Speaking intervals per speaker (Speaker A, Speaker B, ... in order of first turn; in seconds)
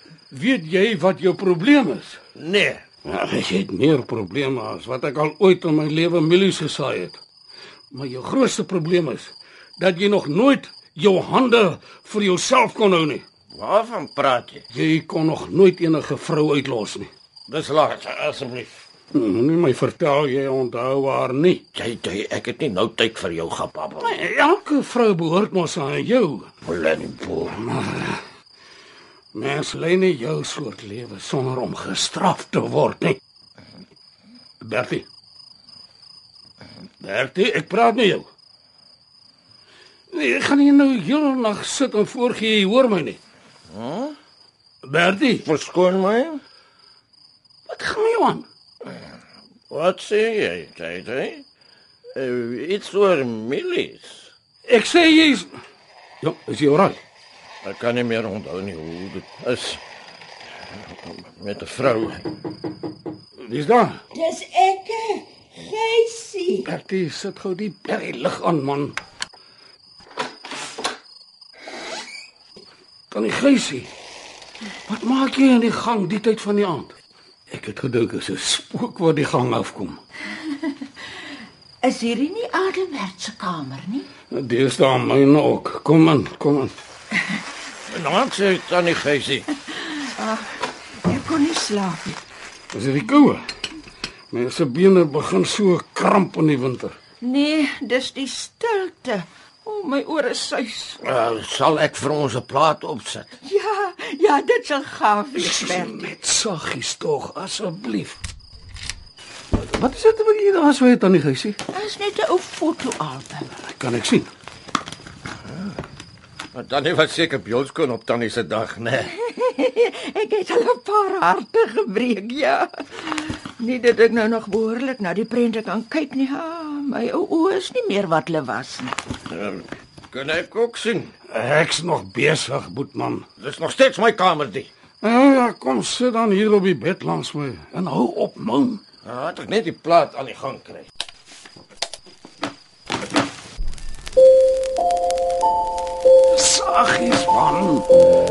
Speaker A: 0.3-2.2, 3.0-7.2, 7.9-13.2, 14.7-17.1, 19.1-21.6, 24.0-26.5, 27.6-28.2, 29.3-33.2, 34.6-35.0, 37.0-38.2, 40.1-43.2, 44.8-45.5, 47.7-48.4, 54.7-55.5, 56.2-57.0, 63.4-64.0, 66.7-69.0, 73.1-73.9, 74.9-76.9, 77.5-80.0, 84.3-86.7, 92.7-93.4, 94.3-97.0, 105.3-108.2, 109.5-111.6, 113.6-114.3, 131.3-133.2, 135.0-138.8, 146.3-147.9
Speaker B: 2.4-2.8, 13.5-14.7, 17.5-18.8, 21.7-24.2, 26.6-27.6, 43.7-44.1, 45.4-46.4, 49.7-51.4, 52.1-54.3, 57.6-59.8, 61.1-62.2, 87.9-89.5, 101.0-103.3, 116.5-119.1, 129.3-131.1, 133.4-134.7, 139.0-140.9
Speaker C: 64.1-66.7, 81.8-84.1, 90.0-92.2, 97.2-101.0, 103.4-106.0, 111.7-113.5, 119.2-129.0